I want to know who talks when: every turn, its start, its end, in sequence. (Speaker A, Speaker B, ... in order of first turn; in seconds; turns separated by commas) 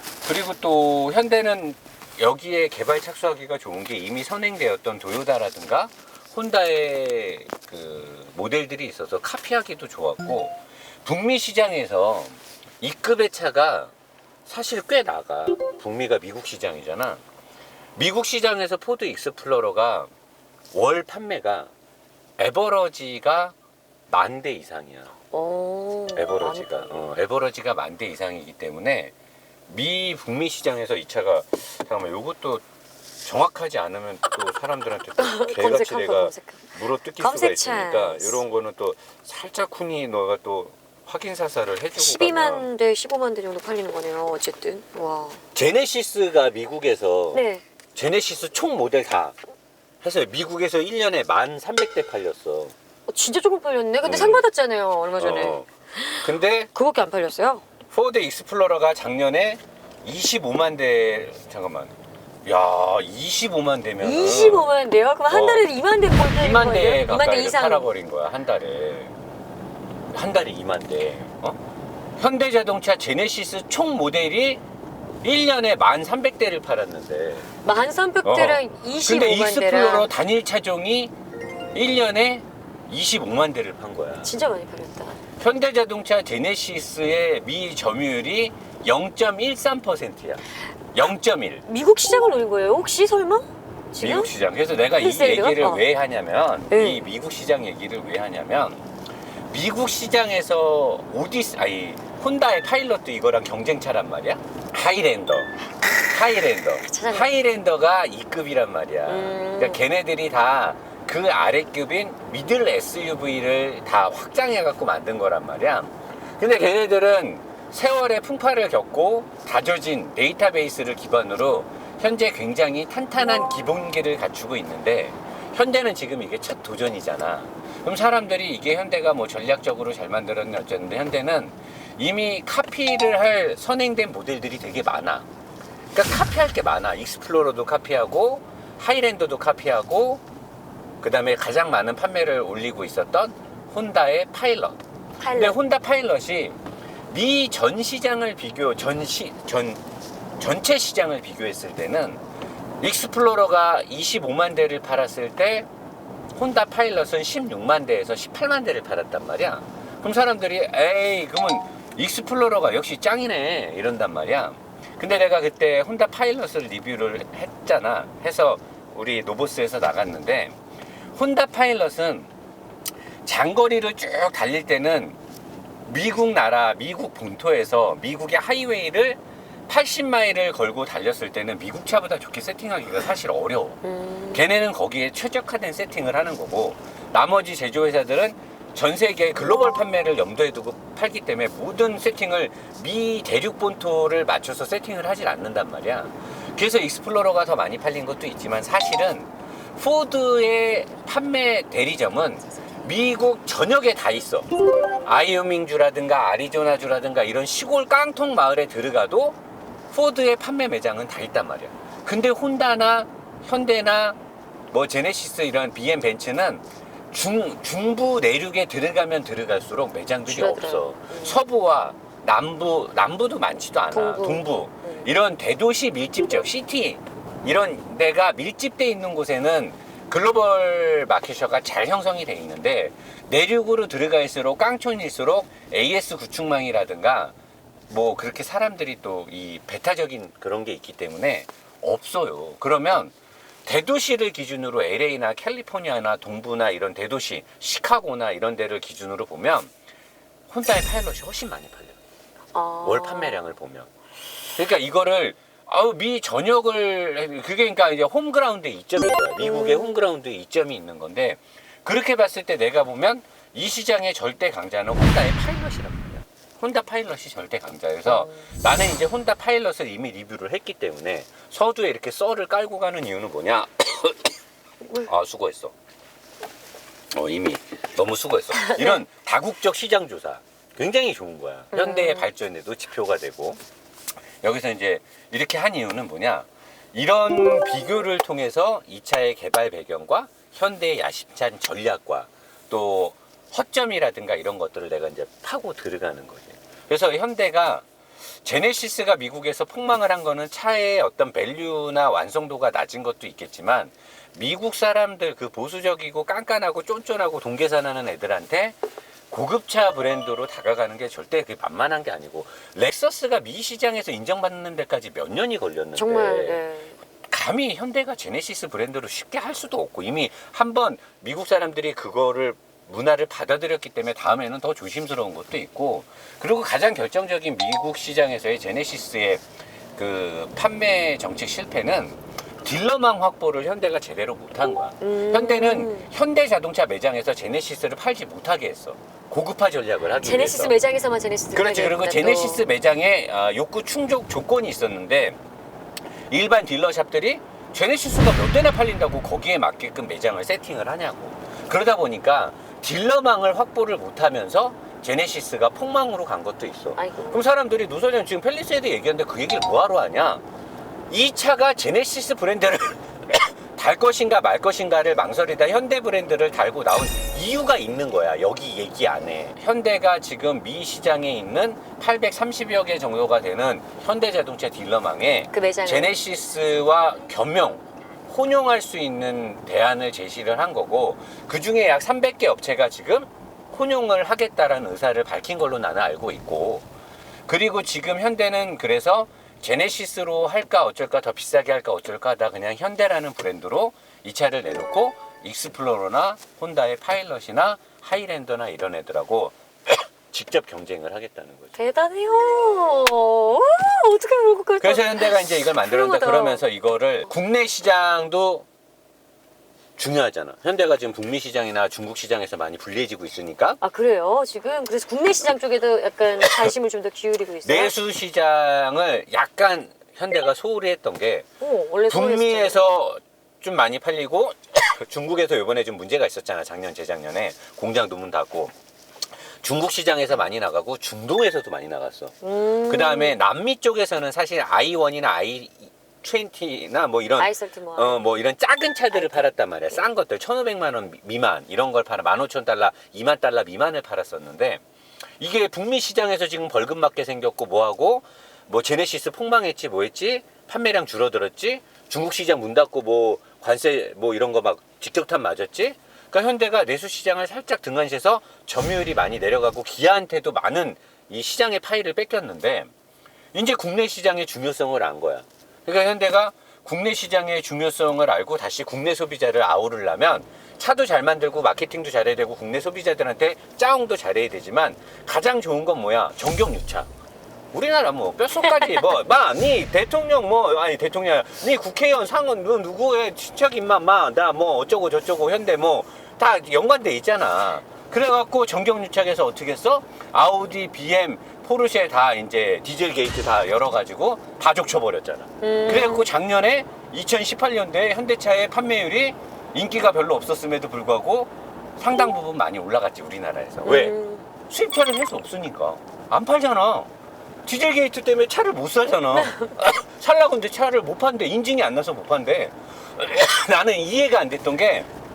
Speaker A: 0.2-13.9, Speaker A: 14.4-17.2, Speaker A: 17.9-20.1, Speaker A: 20.7-21.7, Speaker A: 22.4-23.5, Speaker A: 24.1-25.1, Speaker B: 25.3-27.0, Speaker A: 26.1-29.1, Speaker A: 29.7-32.6, Speaker A: 33.2-42.7, Speaker B: 35.2-38.4, Speaker B: 42.0-45.4, Speaker A: 45.5-47.4, Speaker B: 47.3-47.6, Speaker A: 47.9-49.3, Speaker A: 50.0-52.7, Speaker B: 53.1-57.6, Speaker A: 54.0-54.4, Speaker A: 55.2-55.7, Speaker A: 56.2-56.7, Speaker A: 57.9-61.9, Speaker A: 62.4-64.7, Speaker B: 64.0-67.9, Speaker A: 65.3-65.6, Speaker A: 66.2-69.1, Speaker A: 70.1-71.6, Speaker A: 72.2-74.6, Speaker A: 75.2-77.5, Speaker B: 77.6-80.1, Speaker A: 78.2-81.1, Speaker A: 81.7-84.3, Speaker B: 84.2-85.2, Speaker A: 85.4-90.4, Speaker A: 90.9-91.6, Speaker B: 91.7-94.3, Speaker A: 94.0-98.8, Speaker B: 95.0-95.8, Speaker B: 96.7-97.0, Speaker A: 99.5-135.2, Speaker B: 106.9-107.3, Speaker B: 109.1-109.8, Speaker A: 135.9-140.2, Speaker A: 141.0-144.8, Speaker B: 145.2-145.6, Speaker A: 145.3-146.6, Speaker A: 147.1-149.8, Speaker A: 150.4-152.2, Speaker A: 152.8-155.7, Speaker A: 156.3-170.6, Speaker A: 171.2-172.3, Speaker A: 173.2-175.2, Speaker A: 175.8-183.8, Speaker B: 183.8-184.4, Speaker A: 184.3-204.5, Speaker A: 205.0-209.4, Speaker A: 209.9-214.2, Speaker A: 214.7-237.3, Speaker B: 220.3-221.4, Speaker B: 223.9-225.1, Speaker A: 237.9-243.1, Speaker A: 243.7-249.7, Speaker A: 250.5-252.0, Speaker B: 252.5-253.4, Speaker A: 252.8-253.9, Speaker A: 254.6-274.3, Speaker B: 259.4-260.0, Speaker B: 268.1-268.4, Speaker A: 275.0-275.7, Speaker A: 277.1-283.6, Speaker B: 281.7-282.2, Speaker A: 284.4-297.8, Speaker A: 298.4-308.8, Speaker A: 309.3-316.6, Speaker B: 316.0-316.9, Speaker A: 317.3-329.4, Speaker A: 329.9-340.7, Speaker B: 335.0-336.1, Speaker B: 340.2-342.6, Speaker A: 341.5-345.4, Speaker A: 346.3-360.4, Speaker B: 356.9-357.4, Speaker A: 361.1-386.9, Speaker B: 375.5-376.1, Speaker A: 387.5-401.7, Speaker B: 401.8-406.6, Speaker A: 404.8-408.6, Speaker A: 410.0-413.8, Speaker B: 413.8-417.9, Speaker A: 417.6-421.5, Speaker B: 421.6-422.9, Speaker A: 422.1-428.7, Speaker A: 429.6-444.8, Speaker B: 432.4-433.4, Speaker B: 437.4-438.2, Speaker B: 439.1-440.0, Speaker A: 445.4-462.9, Speaker A: 463.5-477.1, Speaker A: 477.7-507.1, Speaker B: 495.6-496.3, Speaker B: 503.8-504.4, Speaker A: 507.6-515.1, Speaker B: 509.3-509.7